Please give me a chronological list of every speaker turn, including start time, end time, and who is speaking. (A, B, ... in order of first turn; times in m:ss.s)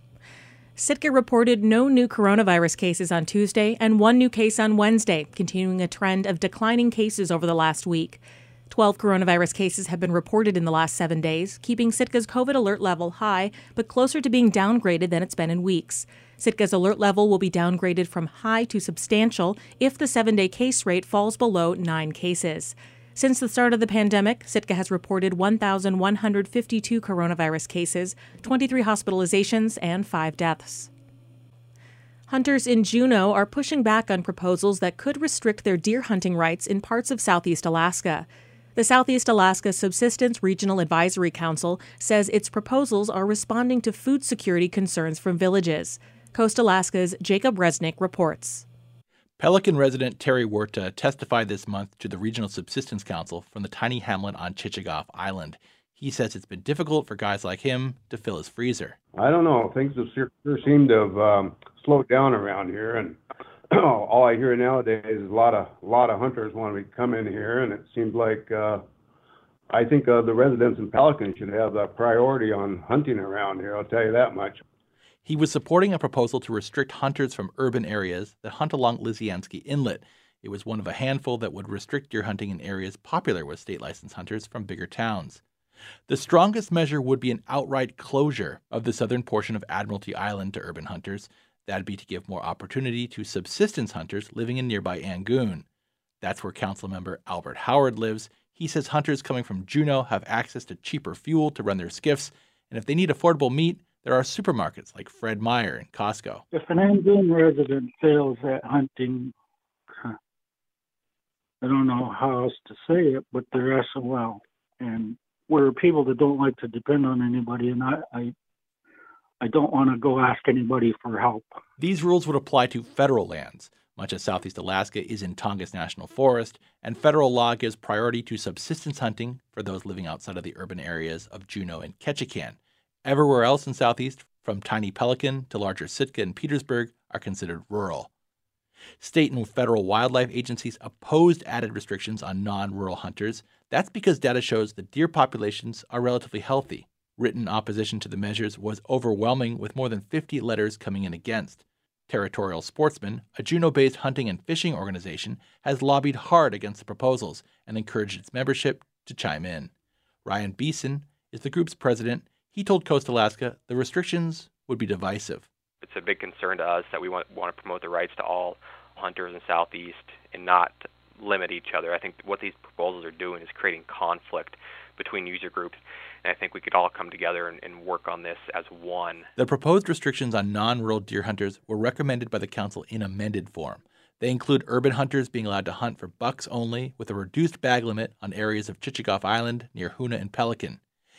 0:00.8-0:30.9 A
0:32.3-0:48.6 A
0:49.4-0:59.0 B
0:59.1-1:03.2 C
1:03.7-1:08.8 C
1:09.7-1:14.6 C
1:15.2-1:25.4 B
1:26.1-1:35.6 B
1:36.2-1:46.4 B
1:46.5-1:49.3 D
1:51.6-1:58.3 D
1:59.4-2:01.5 D
2:01.8-2:18.1 B
2:19.0-2:39.7 B
2:40.2-2:45.5 B
2:45.8-2:59.3 E
2:59.4-3:10.8 B